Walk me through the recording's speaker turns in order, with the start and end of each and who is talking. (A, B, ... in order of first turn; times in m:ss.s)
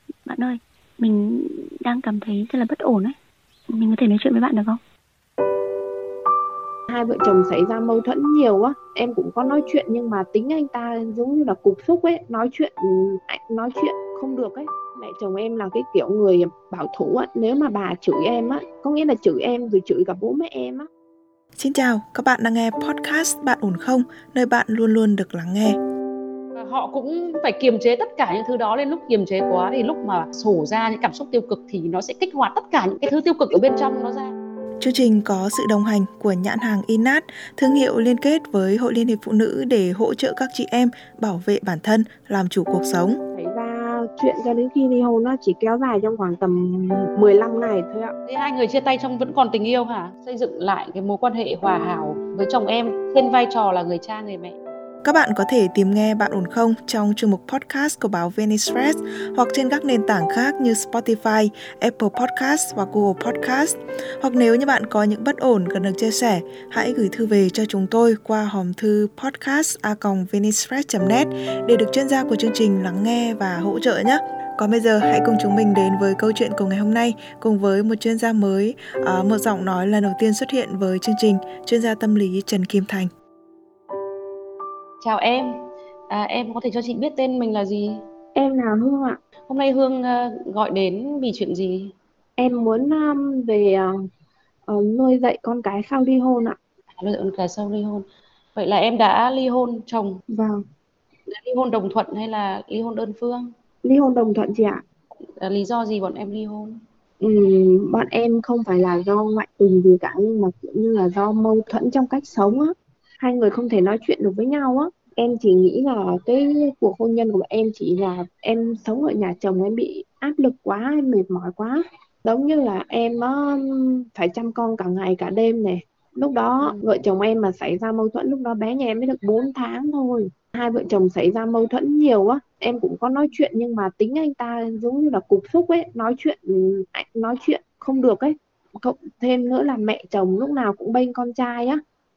0:00.3-0:03.2 A
0:03.7-0:04.8 A
0:06.9-0:20.9 B
0:21.6-0:25.8 C
0:26.6-0:34.3 D
0:34.8-0:43.2 C
0:43.3-0:48.1 B
0:48.3-0:54.6 D
0:55.0-1:23.1 C
1:25.0-1:28.0 D
1:28.4-1:29.2 B
1:29.5-1:31.9 D
1:32.4-1:34.0 B
1:34.7-1:36.6 B
1:37.0-1:38.0 D
1:38.6-1:40.2 D
1:40.3-1:40.6 B
1:41.3-1:43.5 D
1:43.8-1:44.8 B
1:45.4-1:46.8 D
1:47.2-2:21.8 B